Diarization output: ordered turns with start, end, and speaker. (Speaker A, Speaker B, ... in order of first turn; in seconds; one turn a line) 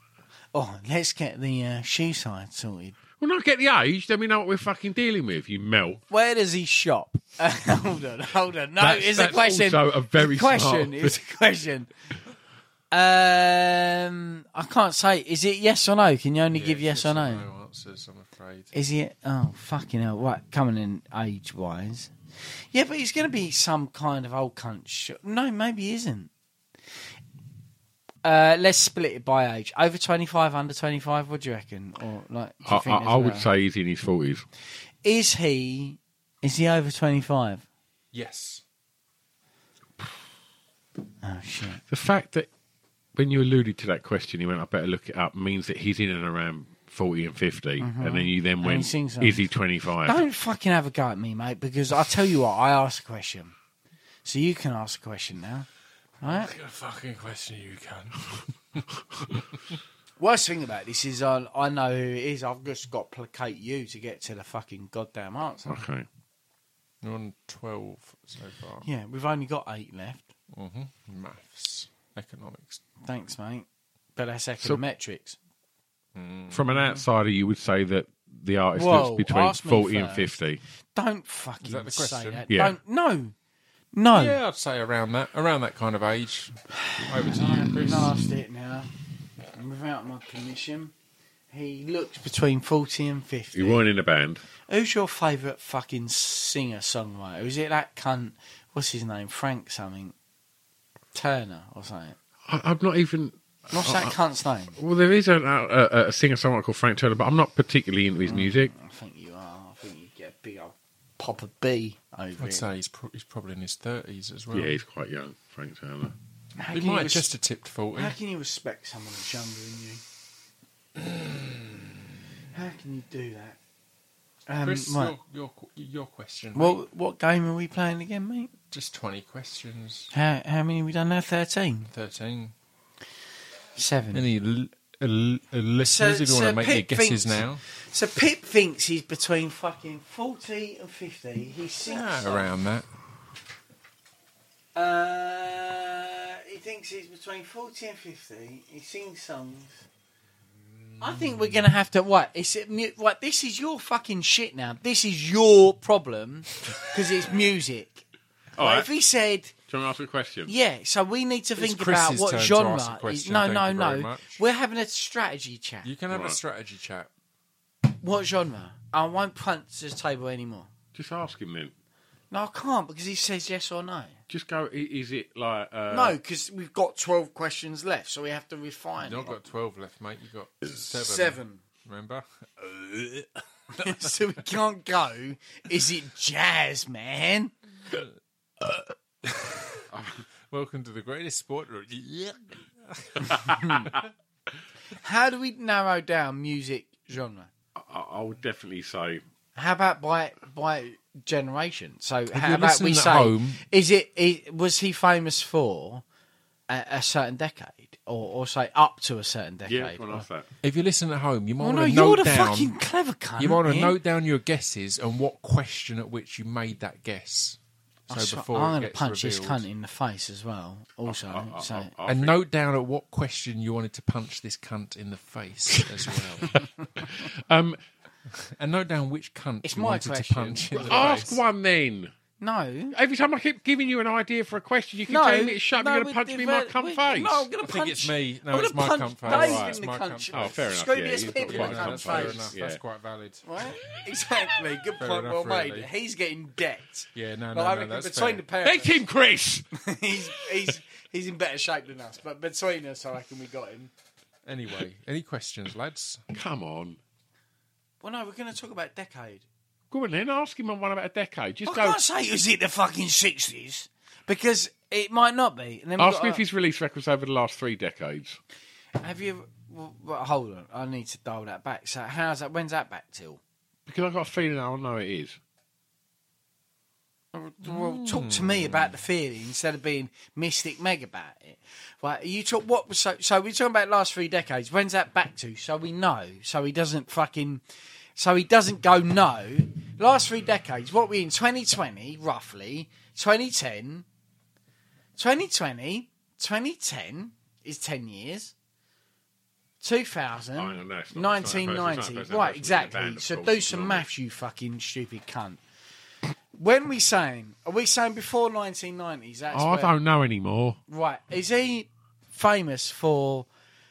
Speaker A: 0.5-3.0
Speaker B: 3.2-6.0
Speaker A: 6.1-11.9
Speaker B: 8.8-11.2
Speaker A: 12.9-17.5
Speaker C: 16.5-18.7
Speaker A: 18.7-22.1
Speaker A: 22.7-26.3
Speaker A: 28.2-33.5
Speaker B: 32.6-34.5
Speaker A: 35.0-37.6
Speaker C: 38.1-38.6
Speaker A: 41.2-41.8
Speaker B: 41.8-42.5
Speaker B: 43.1-50.2
Speaker A: 47.8-49.5
Speaker A: 50.0-53.5
Speaker A: 54.2-55.7
Speaker A: 56.2-56.5
Speaker C: 56.2-59.8
Speaker A: 60.2-65.8
Speaker B: 65.7-66.1
Speaker C: 67.0-68.9
Speaker A: 68.8-70.3
Speaker C: 70.5-72.8
Speaker A: 73.0-75.4
Speaker C: 76.2-76.8
Speaker B: 76.5-80.6
Speaker A: 78.8-80.3
Speaker A: 81.0-83.3
Speaker C: 81.6-82.5
Speaker B: 82.5-82.8
Speaker A: 83.9-84.4
Speaker C: 84.1-88.2
Speaker A: 86.7-88.9
Speaker A: 89.5-90.9
Speaker A: 91.5-93.8
Speaker B: 93.5-94.4
Speaker A: 94.7-100.2
Speaker A: 101.1-102.2
Speaker B: 102.5-104.2
Speaker A: 103.7-104.8
Speaker B: 104.8-108.7
Speaker A: 108.2-112.7
Speaker C: 112.4-114.8
Speaker B: 114.5-116.2
Speaker A: 116.6-117.3
Speaker C: 116.7-118.2
Speaker A: 118.0-120.0
Speaker C: 121.0-121.9
Speaker A: 122.5-123.6
Speaker A: 124.5-125.2
Speaker C: 124.6-126.8
Speaker A: 126.5-128.5
Speaker C: 128.7-130.1
Speaker A: 130.1-131.9
Speaker C: 131.9-132.5
Speaker A: 133.8-134.2
Speaker C: 134.1-137.6
Speaker A: 135.8-142.5
Speaker C: 141.9-142.9
Speaker A: 144.8-149.8
Speaker C: 150.9-151.4
Speaker A: 151.0-158.1
Speaker B: 158.6-158.9
Speaker A: 158.6-159.5
Speaker B: 159.7-160.5
Speaker A: 160.5-165.9
Speaker C: 161.6-164.4
Speaker C: 165.8-167.1
Speaker B: 166.1-166.4
Speaker A: 167.9-170.7
Speaker B: 170.9-171.7
Speaker A: 172.3-174.2
Speaker B: 174.3-176.2
Speaker A: 175.9-179.4
Speaker C: 179.0-182.2
Speaker A: 180.7-181.6
Speaker A: 182.8-187.5
Speaker C: 189.2-189.8
Speaker B: 189.9-190.2
Speaker C: 190.5-194.1
Speaker A: 193.5-193.8
Speaker A: 194.9-197.5
Speaker B: 197.8-199.2
Speaker A: 199.6-206.0
Speaker C: 202.3-203.6
Speaker A: 206.7-210.3
Speaker B: 209.7-210.5
Speaker C: 210.6-212.7
Speaker A: 211.6-214.0
Speaker C: 213.4-217.6
Speaker A: 218.1-221.9
Speaker C: 218.1-219.7
Speaker B: 221.1-222.4
Speaker C: 222.1-226.6
Speaker B: 226.6-227.8
Speaker C: 228.3-231.4
Speaker A: 229.6-231.3
Speaker B: 230.8-232.1
Speaker A: 232.4-233.0
Speaker B: 232.9-237.5
Speaker A: 235.1-242.5
Speaker C: 237.6-240.6
Speaker B: 239.3-239.8
Speaker B: 240.3-242.8
Speaker C: 241.5-243.4
Speaker A: 243.4-249.0
Speaker C: 245.0-245.9
Speaker C: 247.2-248.4
Speaker B: 248.6-249.7
Speaker A: 249.7-253.9
Speaker C: 254.5-256.2
Speaker B: 256.3-257.0
Speaker A: 258.0-259.5
Speaker B: 259.9-262.0
Speaker A: 261.6-266.4
Speaker B: 266.0-268.4
Speaker A: 269.0-273.4
Speaker B: 273.9-275.4
Speaker A: 277.3-287.6
Speaker C: 277.6-278.9
Speaker A: 288.2-294.1
Speaker A: 295.2-298.5
Speaker A: 299.8-305.6
Speaker B: 300.6-304.1
Speaker A: 306.6-310.0
Speaker B: 309.5-310.8
Speaker A: 310.9-313.5